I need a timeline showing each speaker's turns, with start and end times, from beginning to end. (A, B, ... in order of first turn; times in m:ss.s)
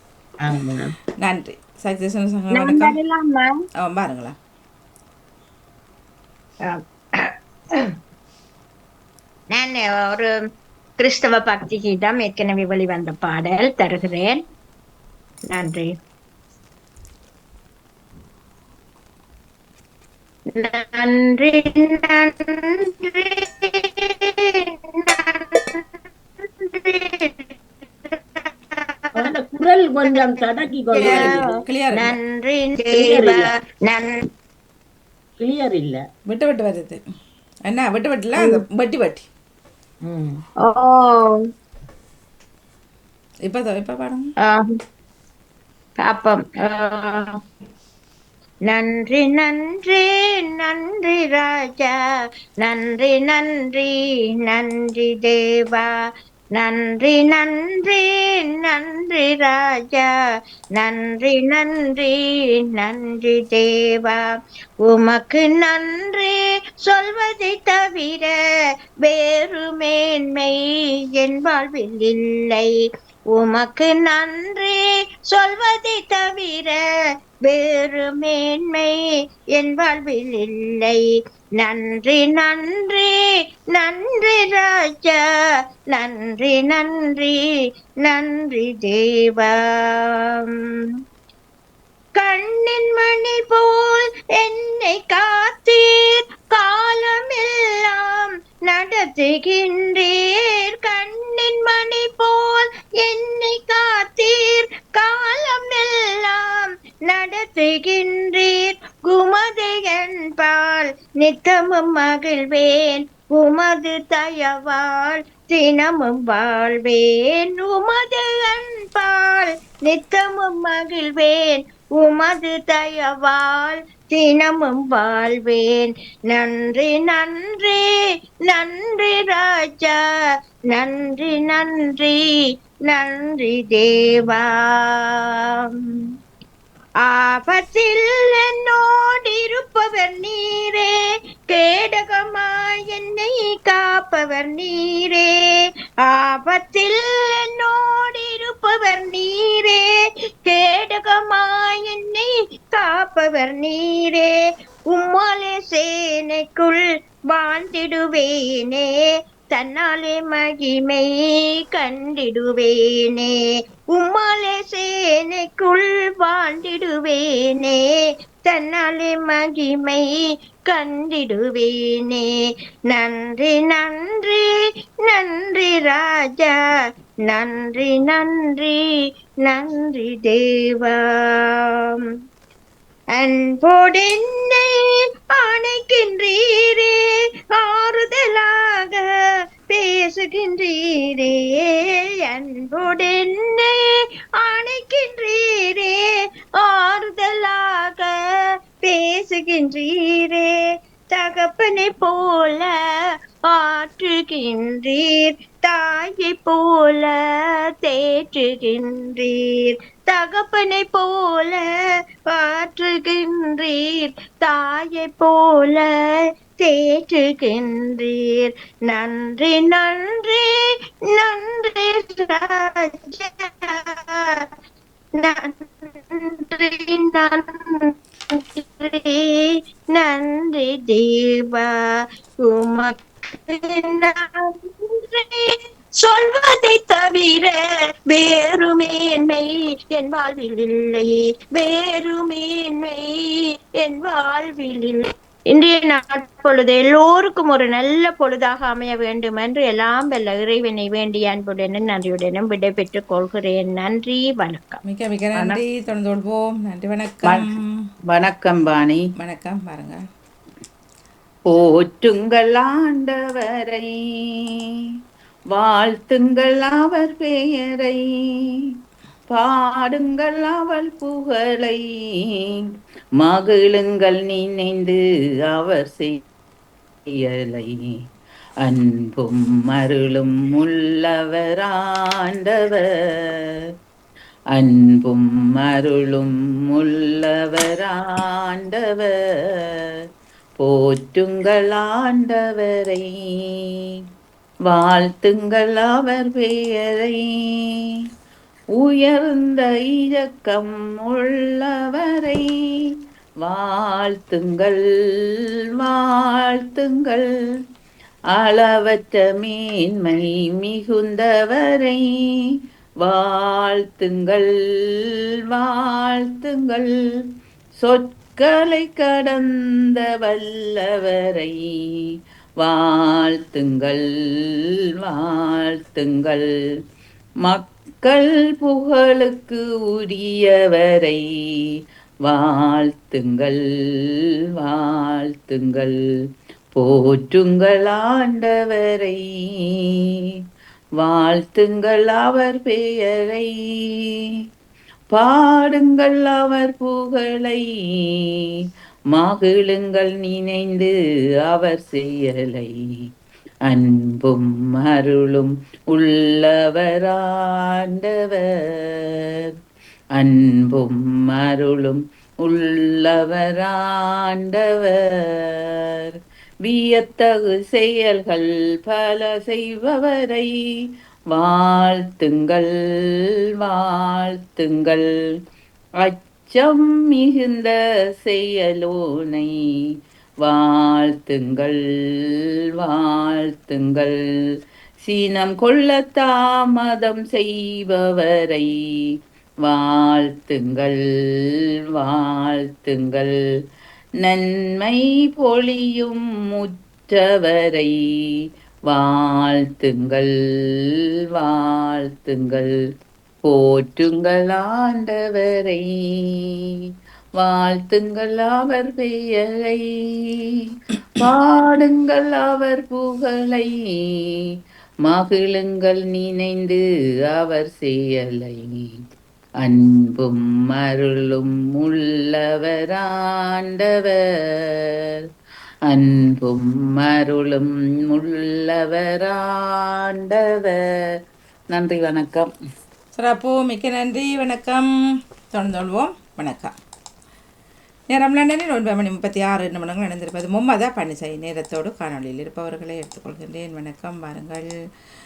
0:00.4-0:00.9 A
0:01.2-0:03.0 B
0:02.5-0:03.5 C
0:03.8-0:04.4 B
0:09.5-0:10.3 C
0:11.0-0:14.4 C
0:15.5-0:15.9 C
0:20.6-0:25.8 C
0:26.4-0:27.5 C
0:28.0-0:29.3 C
0:29.1-0:31.4 A
0:30.1-0:30.4 C
0:30.9-0:34.1 C
0:31.0-0:32.1 B
0:32.9-0:33.5 A
0:35.4-0:36.0 A
0:36.2-0:37.0 B
0:37.6-0:39.3 B
0:40.0-0:40.4 A
0:40.6-0:41.4 C
0:43.4-0:44.3 B
0:46.0-0:47.3 C
0:48.7-0:51.9 C
0:52.6-0:53.9 C
0:54.4-0:55.9 C
0:56.5-1:00.1 C
1:00.8-1:04.2 C
1:04.8-1:08.3 C
1:09.0-1:10.5 C
1:11.1-1:12.7 C
1:13.3-1:16.8 C
1:17.4-1:18.9 C
1:19.5-1:21.0 C
1:21.6-1:23.1 C
1:23.7-1:25.2 C
1:25.9-1:27.4 C
1:28.0-1:30.2 C
1:32.2-2:07.8 C
2:08.5-2:10.0 C
2:10.7-2:12.2 C
2:12.9-2:15.4 C
2:17.0-2:20.9 C
2:21.5-2:25.3 C
2:26.0-2:29.8 C
2:30.4-2:34.3 C
2:34.9-2:36.8 C
2:37.3-2:38.9 C
2:39.5-2:41.1 C
2:41.7-2:43.3 C
2:43.9-2:47.8 C
2:48.4-2:50.0 C
2:50.7-2:52.3 C
2:52.9-2:54.4 C
2:55.0-2:56.5 C
2:57.3-2:58.8 C
2:59.4-3:01.0 C
3:01.5-3:02.0 C
3:03.2-3:04.6 C
3:05.3-3:07.0 C
3:07.5-3:09.0 C
3:09.7-3:11.7 C
3:12.2-3:13.7 C
3:14.4-3:16.0 C
3:16.6-3:18.1 C
3:18.8-3:20.5 C
3:21.1-3:22.7 C
3:23.5-3:27.1 C
3:27.8-3:31.6 C
3:32.3-3:35.9 C
3:36.6-3:40.4 C
3:41.1-3:44.5 C
3:45.2-3:51.7 C
3:52.4-3:54.2 C
3:54.8-3:57.5 C
3:58.1-4:14.8 C
4:14.8-4:17.7 B
4:15.3-4:15.6 D
4:17.2-4:17.5 D
4:18.1-4:19.0 D
4:19.2-4:20.0 B
4:21.5-4:24.3 D
4:25.5-4:28.7 D
4:29.3-4:36.2 D
4:37.1-4:38.0 D
4:38.6-4:43.5 D
4:44.5-4:49.9 D
4:50.6-4:53.8 D
4:54.7-4:58.0 D
4:58.8-5:07.3 D
5:08.3-5:17.0 D
5:17.8-5:22.0 D
5:22.6-5:26.6 D
5:27.4-5:36.0 D
5:36.7-5:40.1 D
5:41.0-5:44.2 D
5:45.1-5:48.4 D
5:49.1-5:50.9 D
5:51.4-5:52.8 D
5:53.6-5:59.5 D
6:00.1-6:10.6 D
6:11.3-6:15.2 D
6:16.0-6:19.6 D
6:20.4-6:24.4 D
6:25.0-6:33.4 D
6:34.2-6:42.8 D
6:43.4-6:46.7 D
6:47.4-6:50.3 D
6:51.2-6:54.4 D
6:55.0-6:59.0 D
6:59.6-7:04.9 D
7:05.9-7:11.0 D
7:11.7-7:12.5 D
7:13.1-7:14.9 B
7:15.5-7:16.7 B
7:18.1-7:24.7 B